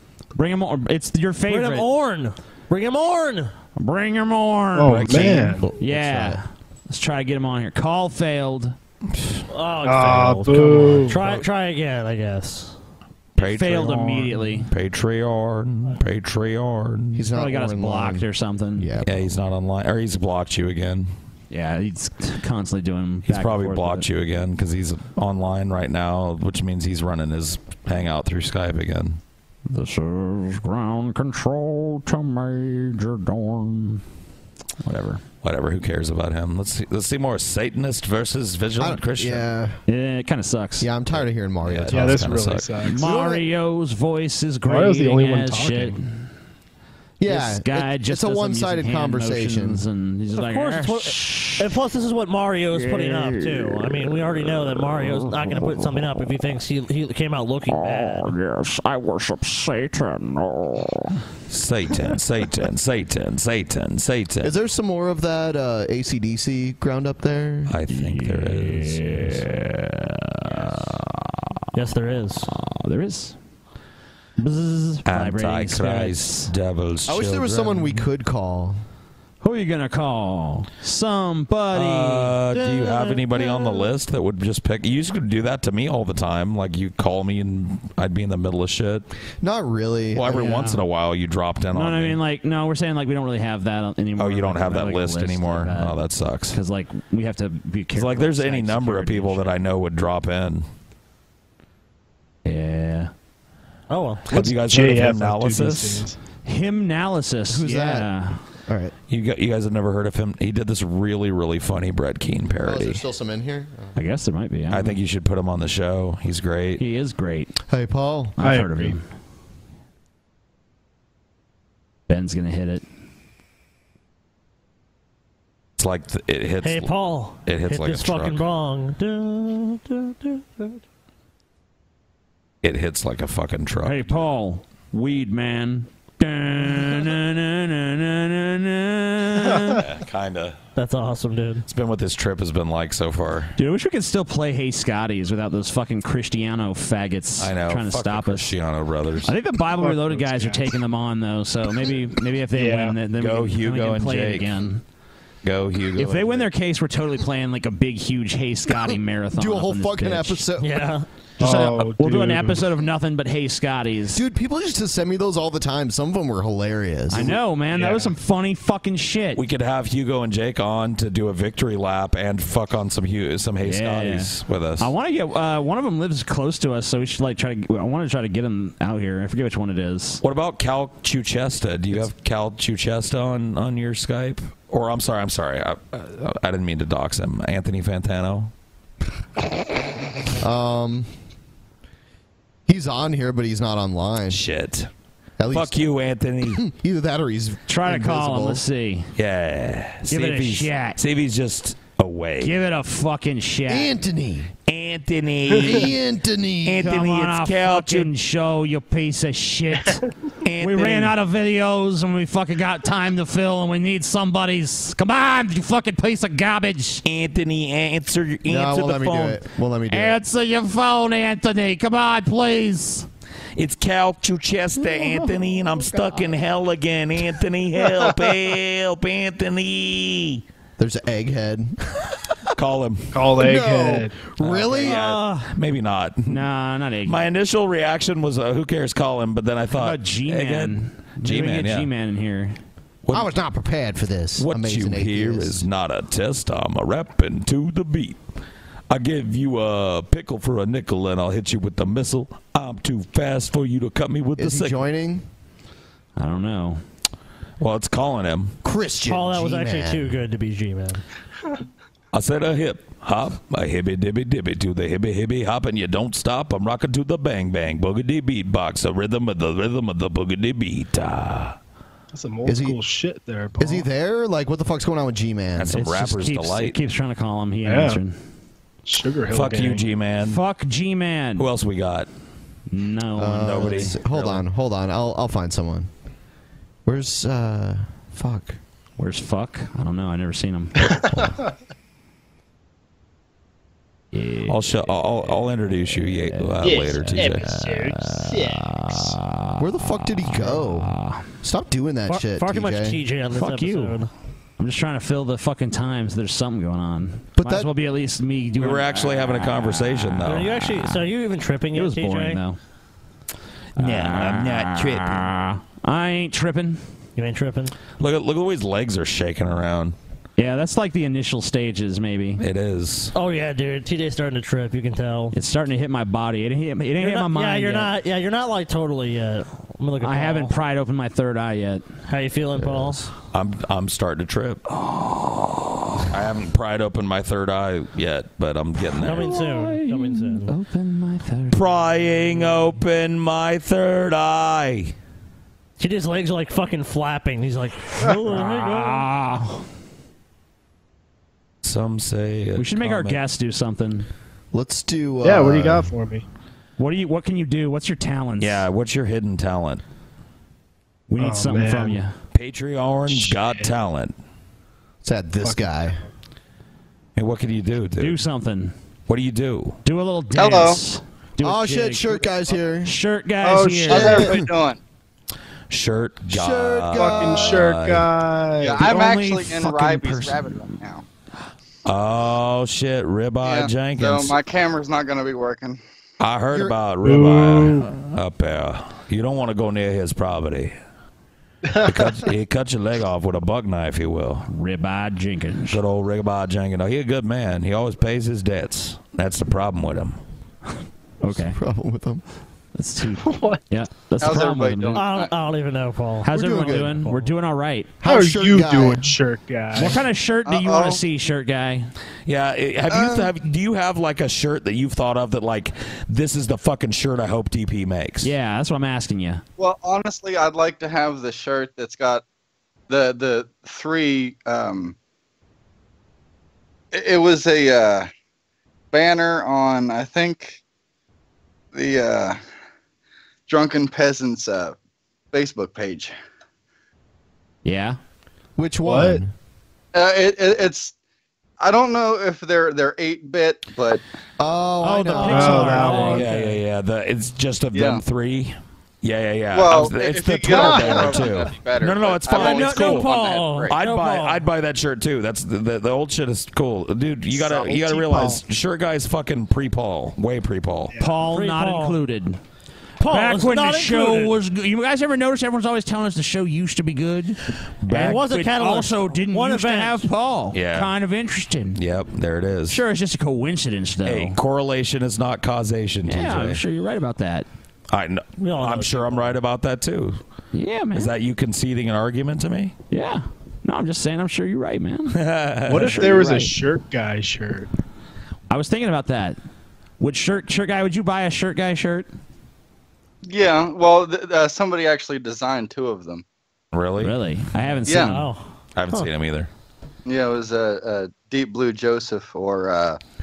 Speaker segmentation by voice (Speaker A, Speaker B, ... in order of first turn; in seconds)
Speaker A: 0.3-1.9, 3.8-8.7, 13.4-14.7, 17.3-18.9, 21.5-24.1, 29.7-34.0, 34.8-35.2, 39.9-40.9, 42.8-46.2, 47.2-51.6, 52.7-56.4, 57.7-61.2, 67.9-71.4, 72.5-73.4, 75.1-76.5, 79.4-82.3, 90.3-90.8, 91.7-95.9, 96.5-99.5, 102.4-103.1, 106.4-108.4, 114.0-115.0, 116.8-117.5, 118.4-119.0, 122.1-122.8, 133.8-139.8, 143.6-148.5, 149.2-154.8, 156.0-160.4, 161.4-164.2, 167.1-169.4, 173.6-180.2, 197.7-199.1, 200.1-201.0, 202.4-203.9, 206.8-210.0, 210.6-217.0, 218.8-219.3, 219.9-223.1, 236.3-237.2, 239.8-242.6, 256.2-256.8, 275.7-278.1, 280.2-281.5, 282.7-283.9, 289.0-291.3, 294.1-301.2, 303.3-304.0, 304.6-311.0, 311.7-312.6, 313.8-316.8, 320.4-322.4, 325.3-327.9, 330.0-331.9, 334.7-336.1, 339.0-342.5, 348.3-349.6, 352.6-354.1, 356.8-358.7, 361.1-362.1, 368.0-368.7, 369.8-372.2, 372.8-374.3, 378.8-380.7, 394.5-395.8, 401.2-401.6, 402.7-405.1, 406.2-407.9, 409.7-411.9, 418.2-419.4, 437.6-438.0, 445.4-446.1, 461.0-462.4, 463.0-471.8, 472.7-474.4, 476.1-477.5, 480.5-481.1, 482.9-485.2, 485.7-486.5, 488.5-489.4, 490.0-492.1, 497.0-498.3
Speaker B: 1.5-3.5, 9.5-12.7, 50.4-58.3, 71.7-72.5, 74.4-75.0, 82.5-83.8, 103.9-104.2, 126.6-130.7, 140.8-141.6, 160.6-161.0, 234.8-235.5, 259.1-261.0, 302.1-304.1, 310.2-312.4, 317.2-317.7, 323.1-325.3, 327.0-330.5, 332.1-333.1, 339.0-340.5, 345.8-349.1, 404.9-407.3, 444.8-446.5, 450.6-451.0, 452.3-454.4, 461.3-461.9, 463.0-464.3, 467.9-470.0, 478.4-479.2, 498.1-499.1
Speaker C: 4.7-5.7, 9.8-11.2, 41.9-43.4, 44.6-46.0, 104.3-106.2, 118.4-119.0, 149.7-150.8, 152.5-153.0, 161.4-162.7, 167.7-168.1, 233.1-234.2, 272.1-273.9, 277.6-278.0, 278.8-279.8, 290.9-291.3, 297.6-297.9, 355.2-356.2, 361.2-362.0, 365.4-365.7, 373.4-374.3, 376.9-378.8, 387.0-387.9, 391.7-392.1, 403.2-403.6, 408.0-410.0, 438.8-439.2, 445.2-446.3, 457.9-458.3, 485.7-487.7
Speaker D: 5.0-5.5, 13.4-17.3, 19.0-21.1, 23.2-29.2, 35.4-39.5, 41.6-42.8, 61.5-64.5, 67.7-69.4, 75.0-78.1, 81.7-89.1, 90.1-92.2, 94.2-96.6, 97.9-100.7, 104.3-106.0, 109.1-113.0, 114.7-116.8, 125.8-126.9, 127.4-128.4, 132.6-134.2, 139.7-140.6, 141.7-143.5, 147.4-149.3, 153.1-154.6, 155.4-156.4, 169.3-174.9, 180.2-188.5, 194.3-194.9, 195.5-196.6, 199.2-202.5, 204.7-205.9, 206.6-208.1, 210.4-211.1, 217.0-219.3, 223.6-230.4, 232.6-233.2, 234.5-236.4, 237.0-241.9, 244.4-248.2, 248.9-254.8, 257.6-258.6, 262.1-271.6, 275.6-276.8, 279.3-280.4, 281.4-282.1, 283.3-284.4, 294.5-297.5, 308.6-310.7, 313.8-315.2, 318.0-319.9, 322.4-323.1, 333.3-334.6, 336.1-339.5, 341.5-344.9, 351.6-353.2, 358.4-359.8, 362.3-364.1, 367.1-368.2, 369.1-369.8, 375.7-378.1, 381.8-384.4, 386.2-390.7, 391.8-394.5, 395.7-400.2, 412.3-418.3, 446.0-453.1, 453.7-460.9, 467.8-468.3, 470.5-470.9, 471.7-472.8, 474.0-476.6, 477.9-480.2, 480.9-482.7, 485.1-486.3, 496.7-497.2, 497.8-498.1, 498.7-499.5
Speaker E: 5.8-6.4, 17.1-19.2, 38.8-39.8, 40.8-42.3, 43.0-43.4, 47.2-49.8, 64.4-67.7, 77.1-78.8, 89.4-90.6, 107.5-108.1, 108.7-108.9, 112.6-114.0, 117.7-118.3, 159.3-160.8, 164.1-167.3, 190.4-191.1, 192.7-194.4, 195.4-195.8, 196.4-198.6, 203.7-204.5, 205.6-206.9, 218.4-220.2, 230.8-231.8, 233.4-235.0, 243.1-245.6, 254.4-255.2, 258.6-260.1, 272.4-272.8, 273.6-275.8, 283.1-285.9, 286.8-288.6, 299.6-300.9, 301.4-303.0, 307.4-307.7, 354.5-355.9, 365.0-366.0, 371.4-372.9, 373.9-374.5, 376.3-377.7, 401.3-402.2, 406.3-407.0, 408.0-409.2, 438.6-439.3, 444.4-446.2
Speaker F: 370.3-370.8, 373.9-374.8, 378.6-381.0, 383.4-385.8, 404.2-405.3, 410.4-411.0, 412.9-413.2, 419.6-422.2, 422.9-424.9, 426.9-428.1, 428.9-430.6, 431.7-432.4, 433.5-434.7, 435.3-436.1, 439.9-440.9, 441.6-444.0, 447.7-448.0, 449.5-453.7, 457.4-457.9, 493.3-496.2, 500.1-503.0